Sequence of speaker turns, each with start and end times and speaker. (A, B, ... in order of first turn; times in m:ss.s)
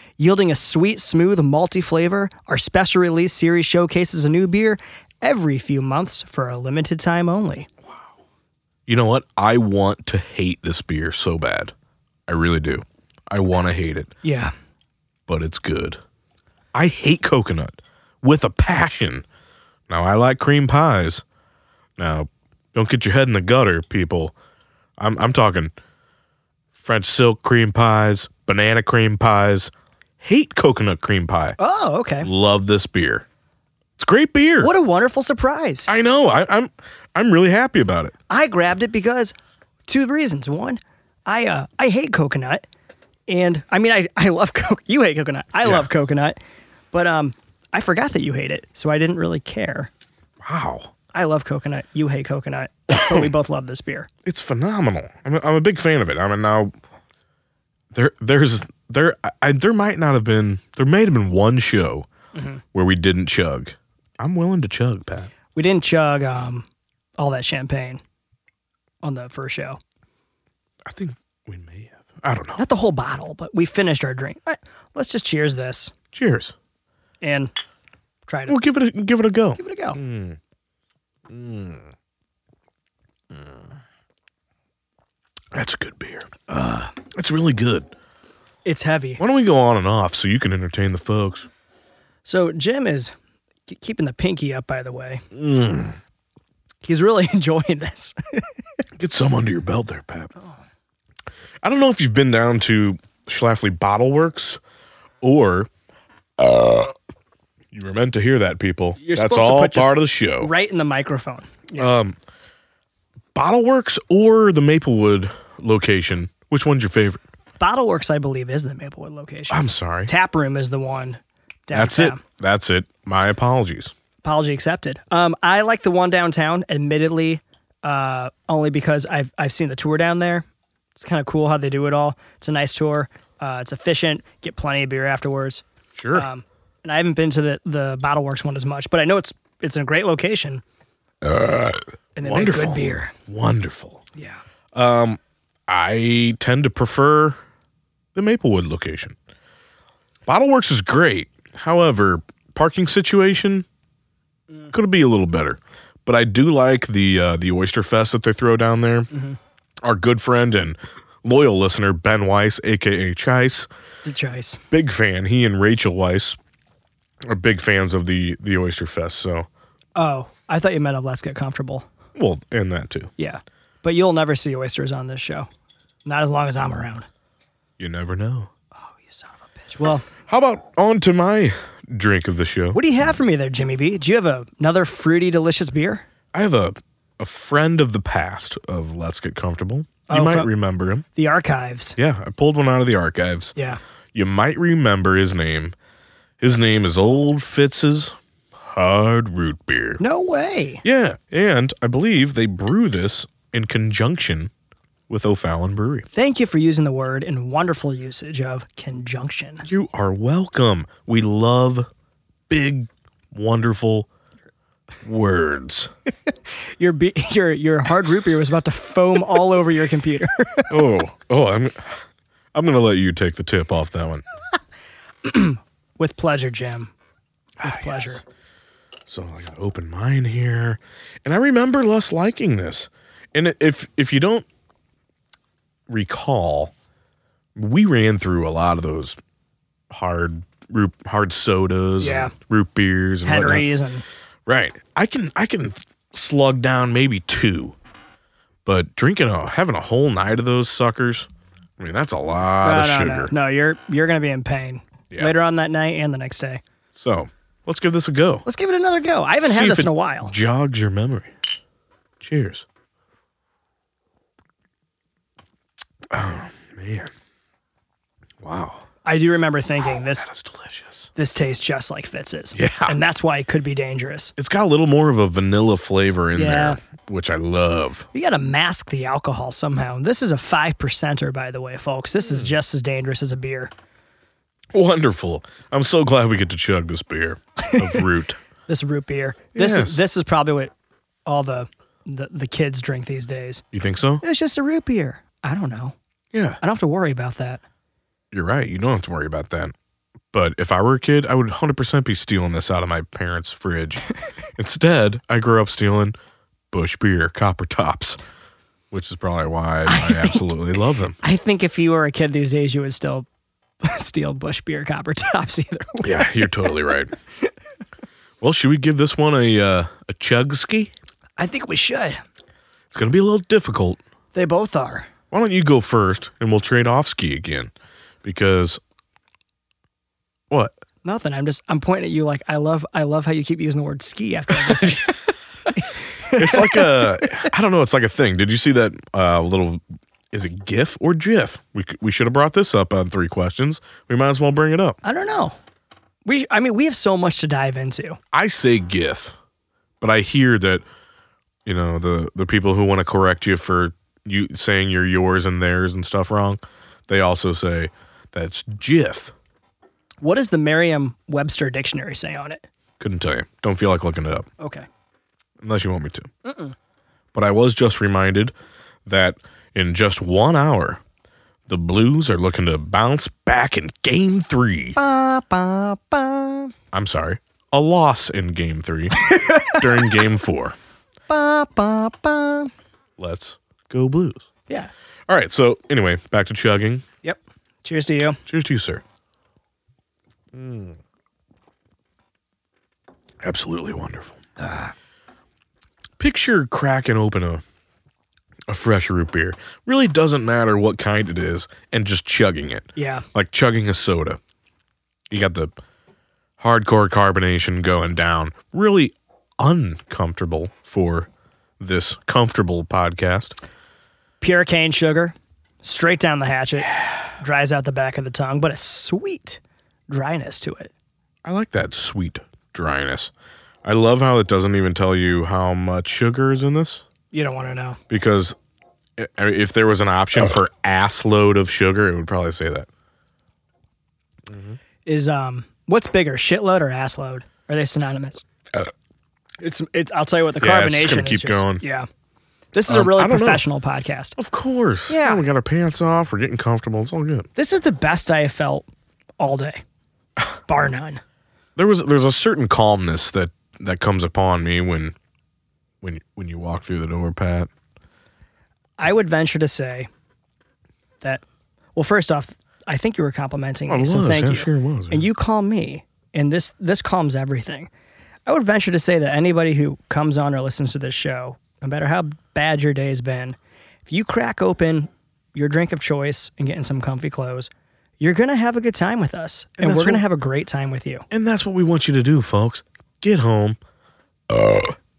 0:00.2-0:07.7 A
0:08.9-0:11.7 B
0:12.3-0:14.1 B
0:14.2-0:14.5 A
0:15.3-0:16.0 B
0:16.7-0:19.2 B
0:19.9-0:21.2 B
0:22.0-0:24.3 B
0:25.0-0:25.7 B
0:26.7-0:31.6 B
0:31.6-0:32.3 A
0:32.2-0:33.2 B
0:34.0-0:34.7 B
0:34.6-0:35.9 A
0:35.9-0:38.1 B
0:38.3-0:39.3 A
0:39.9-0:42.6 A
0:43.3-0:46.4 A
0:46.9-0:49.9 A
0:50.4-0:50.9 B
0:51.1-0:54.1 A
0:52.9-0:53.3 B
0:54.2-0:56.7 B
0:57.9-1:02.1 B
1:02.3-1:02.6 A
1:02.7-1:05.3 B
1:05.5-1:06.6 A
1:07.2-1:08.0 A
1:09.0-1:09.8 A
1:10.8-1:12.6 B
1:12.6-1:15.9 A
1:16.1-1:16.5 B
1:17.2-1:17.5 A
1:18.3-1:18.6 A
1:18.5-1:20.4 B
1:19.6-1:20.0 A
1:21.3-1:21.9 B
1:25.5-1:27.9 B
1:28.6-1:29.2 A
1:29.2-1:31.5 B
1:32.2-1:33.1 A
1:33.7-1:35.2 A
1:35.3-1:36.0 B
1:36.8-1:38.4 A
1:39.0-1:40.3 B
1:41.6-1:44.6 B
1:45.2-1:45.7 B
1:46.4-1:46.9 B
1:47.7-1:50.5 B
1:49.0-1:51.9 A
1:51.7-1:52.2 B
1:53.3-1:57.2 B
1:57.6-2:02.2 A
1:59.5-2:00.1 B
2:01.7-2:03.9 B
2:04.2-2:20.6 A
2:15.9-2:16.2 B
2:21.3-2:24.0 B
2:22.2-2:23.1 A
2:24.1-2:24.4 A
2:24.7-2:27.4 B
2:28.1-2:29.1 B
2:30.3-2:33.6 B
2:34.7-2:39.1 B
2:39.1-2:39.4 A
2:39.8-2:43.7 B
2:44.0-2:44.6 A
2:44.7-2:46.4 B
2:47.2-2:49.5 B
2:50.0-2:51.9 A
2:52.1-2:53.1 B
2:53.2-2:55.5 A
2:56.0-2:57.1 A
2:57.8-2:58.5 B
2:58.8-3:00.0 A
3:00.3-3:02.8 B
3:02.7-3:06.0 A
3:06.3-3:11.0 B
3:10.1-3:10.5 A
3:11.1-3:12.0 A
3:12.0-3:13.5 B
3:14.1-3:15.7 B
3:16.4-3:20.0 B
3:20.0-3:20.8 A
3:20.8-3:24.5 B
3:25.1-3:26.1 B
3:26.1-3:29.6 A
3:29.6-3:31.9 B
3:32.5-3:34.1 B
3:35.0-3:35.9 B
3:36.3-3:40.7 A
3:40.7-3:42.0 B
3:42.5-3:44.2 B
3:45.2-3:46.9 A
3:47.6-3:48.2 B
3:47.6-3:48.2 A
3:49.1-3:54.4 B
3:55.9-3:56.7 B
3:57.5-3:59.2 B
3:59.9-4:03.7 B
4:02.0-4:02.3 A
4:03.2-4:04.0 A
4:04.4-4:07.7 B
4:08.6-4:11.3 B
4:11.8-4:13.3 B
4:12.6-4:16.6 A
4:16.9-4:18.4 B
4:18.4-4:20.3 A
4:19.4-4:21.3 B
4:22.2-4:22.6 B
4:26.1-4:27.1 B
4:28.4-4:28.8 B
4:29.0-4:30.2 A
4:30.0-4:31.1 B
4:31.2-4:34.3 A
4:32.5-4:33.0 B
4:34.4-4:38.1 B
4:36.3-4:36.8 A
4:38.1-4:43.7 A
4:44.7-4:48.4 B
4:47.6-4:48.0 A
4:48.7-4:50.7 A
4:49.6-4:50.0 B
4:51.2-4:53.6 A
4:53.7-4:54.2 B
4:54.2-4:55.9 A
4:56.3-4:56.6 B
4:56.6-4:57.6 A
4:58.3-4:59.7 B
5:00.3-5:04.0 B
5:04.6-5:06.2 B
5:06.7-5:08.2 B
5:08.9-5:11.2 B
5:09.9-5:10.4 A
5:11.2-5:13.2 A
5:13.8-5:16.6 A
5:16.0-5:17.1 B
5:18.4-5:20.9 B
5:21.4-5:22.2 A
5:22.9-5:24.0 B
5:24.3-5:25.1 A
5:25.3-5:27.7 B
5:28.2-5:28.8 B
5:30.5-5:30.8 B
5:31.0-5:35.1 A
5:34.6-5:35.1 B
5:35.7-5:37.5 A
5:36.3-5:45.0 B
5:45.0-5:45.6 A
5:46.2-5:48.2 A
5:48.3-5:49.4 B
5:50.0-5:50.8 B
5:51.6-5:59.3 B
6:00.2-6:02.6 A
6:03.0-6:04.5 B
6:04.6-6:04.9 A
6:05.6-6:06.3 B
6:06.4-6:06.7 A
6:07.3-6:08.5 B
6:09.0-6:11.0 B
6:11.7-6:15.0 B
6:15.0-6:16.7 A
6:16.9-6:20.8 B
6:19.2-6:19.9 A
6:21.3-6:22.7 A
6:23.2-6:24.4 B
6:25.3-6:27.0 B
6:27.2-6:28.4 A
6:28.5-6:29.0 B
6:30.5-6:31.0 B
6:33.4-6:34.8 B
6:36.2-6:37.6 B
6:38.7-6:44.4 B
6:43.0-6:43.2 A
6:45.3-6:45.7 B
6:46.6-6:51.3 B
6:51.8-6:53.6 B
6:54.4-7:00.9 A
7:01.4-7:03.3 B
7:03.8-7:07.0 B
7:07.3-7:08.0 A
7:08.1-7:08.6 B
7:09.2-7:12.9 B
7:14.5-7:14.8 B
7:15.0-7:18.4 A
7:19.6-7:22.1 A
7:20.6-7:21.8 B
7:22.7-7:24.4 A
7:22.9-7:23.6 B
7:24.4-7:27.5 B
7:25.1-7:25.4 A
7:27.6-7:28.9 A
7:29.4-7:29.8 A
7:30.7-7:31.2 A
7:31.8-7:35.1 B
7:36.0-7:37.7 B
7:39.0-7:40.1 A
7:41.9-7:47.9 A
7:43.9-7:45.2 B
7:48.4-8:01.2 A
7:59.8-8:00.2 B
8:01.3-8:03.8 B
8:04.5-8:04.9 B